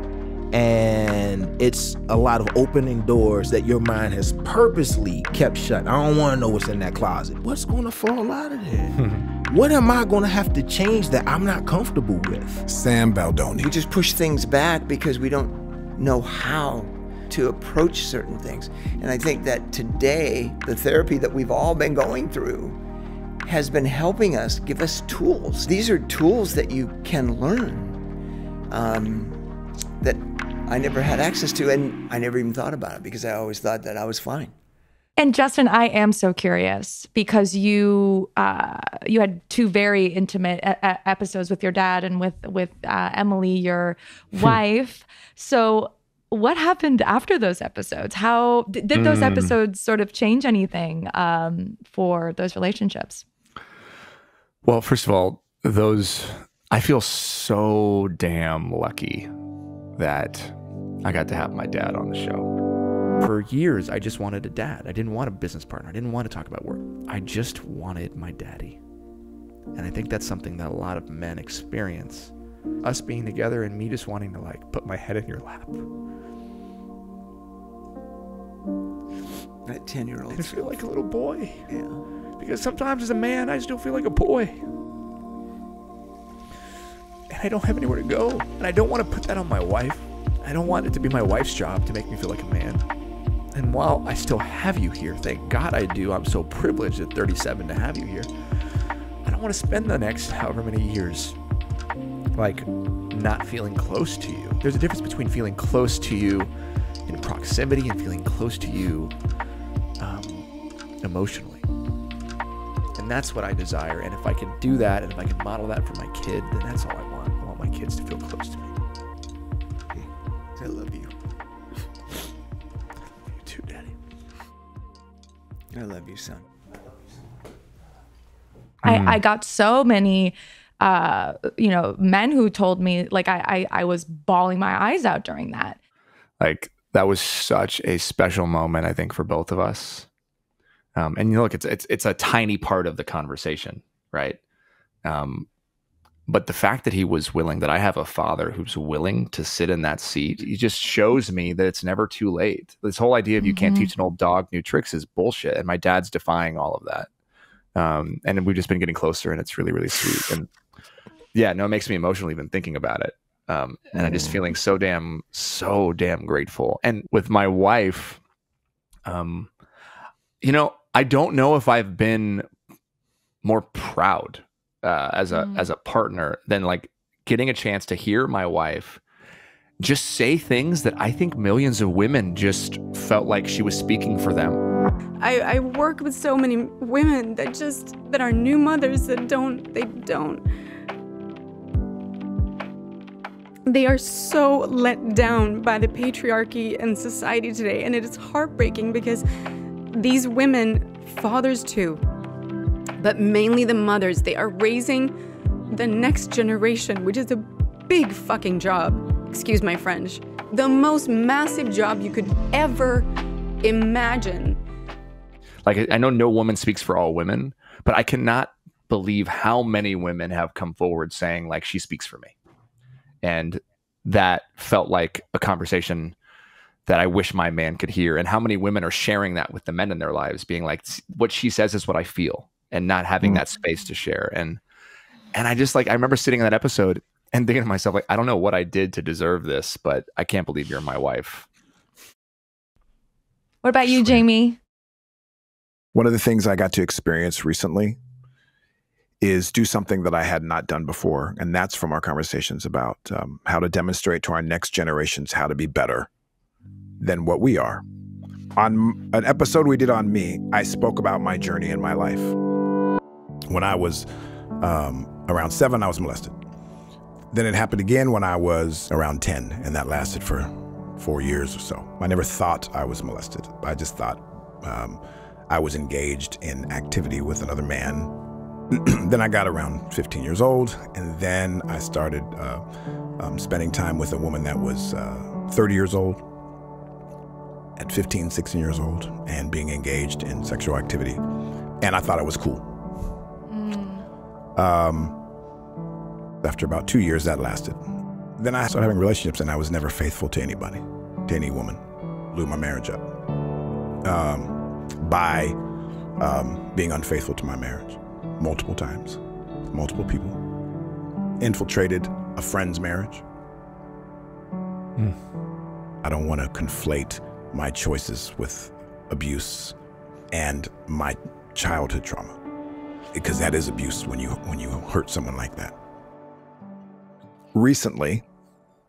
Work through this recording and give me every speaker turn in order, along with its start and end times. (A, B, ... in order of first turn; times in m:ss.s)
0:00.5-0:08.9 A
0:09.5-0:12.6 A
0:12.7-0:13.7 B
0:13.6-0:22.8 C
0:23.4-0:28.0 C
0:28.7-0:29.4 C
0:30.0-0:34.5 C
0:35.2-0:53.2 D
0:48.9-0:49.5 E
0:54.6-0:59.3 E
1:00.0-1:02.5 E
1:03.2-1:08.8 E
1:09.7-1:12.3 E
1:12.8-1:15.8 E
1:19.6-1:20.8 C
1:20.3-1:21.6 E
1:21.7-1:22.0 C
1:22.4-1:24.7 E
1:27.3-1:32.8 E
1:33.5-1:38.3 E
1:39.2-1:41.4 E
1:42.3-1:46.5 E
1:47.0-1:49.1 E
1:50.0-1:50.5 E
1:51.0-1:51.6 E
1:53.0-1:58.7 E
2:00.6-2:01.1 C
2:03.3-2:03.9 E
2:05.7-2:06.4 C
2:08.8-2:15.8 D
2:08.8-2:09.2 E
2:16.4-2:20.1 E
2:20.9-2:24.4 E
2:25.0-2:25.5 E
2:26.3-2:37.1 E
2:33.4-2:33.9 D
2:37.7-2:40.5 E
2:41.3-2:48.2 E
2:43.9-2:44.4 B
2:49.0-2:49.5 E
2:50.4-2:52.4 E
2:53.4-2:59.0 E
2:55.3-2:55.7 D
2:59.8-3:04.6 E
3:05.2-3:10.4 F
3:13.6-3:19.2 F
3:19.9-3:22.0 F
3:23.0-3:25.1 F
3:25.7-3:33.1 F
3:33.6-3:34.6 F
3:35.6-3:42.3 E
3:43.2-3:46.1 E
3:46.8-3:54.6 E
3:55.3-4:01.4 E
4:03.6-4:04.6 D
4:05.9-4:08.0 B
4:09.2-4:16.1 B
4:17.0-4:17.8 B
4:18.6-4:22.4 B
4:23.5-4:24.1 B
4:24.6-4:26.4 B
4:27.3-4:38.1 B
4:38.7-4:42.6 B
4:43.2-4:46.2 B
4:47.8-4:51.2 B
4:51.8-4:52.7 B
4:53.5-4:54.0 D
4:54.6-4:55.2 B
4:56.4-4:57.8 B
4:58.4-5:03.0 B
5:04.0-5:05.6 B
5:06.2-5:10.4 B
5:11.4-5:13.2 B
5:16.0-5:19.7 B
5:20.3-5:22.3 B
5:23.1-5:25.7 B
5:27.5-5:28.2 B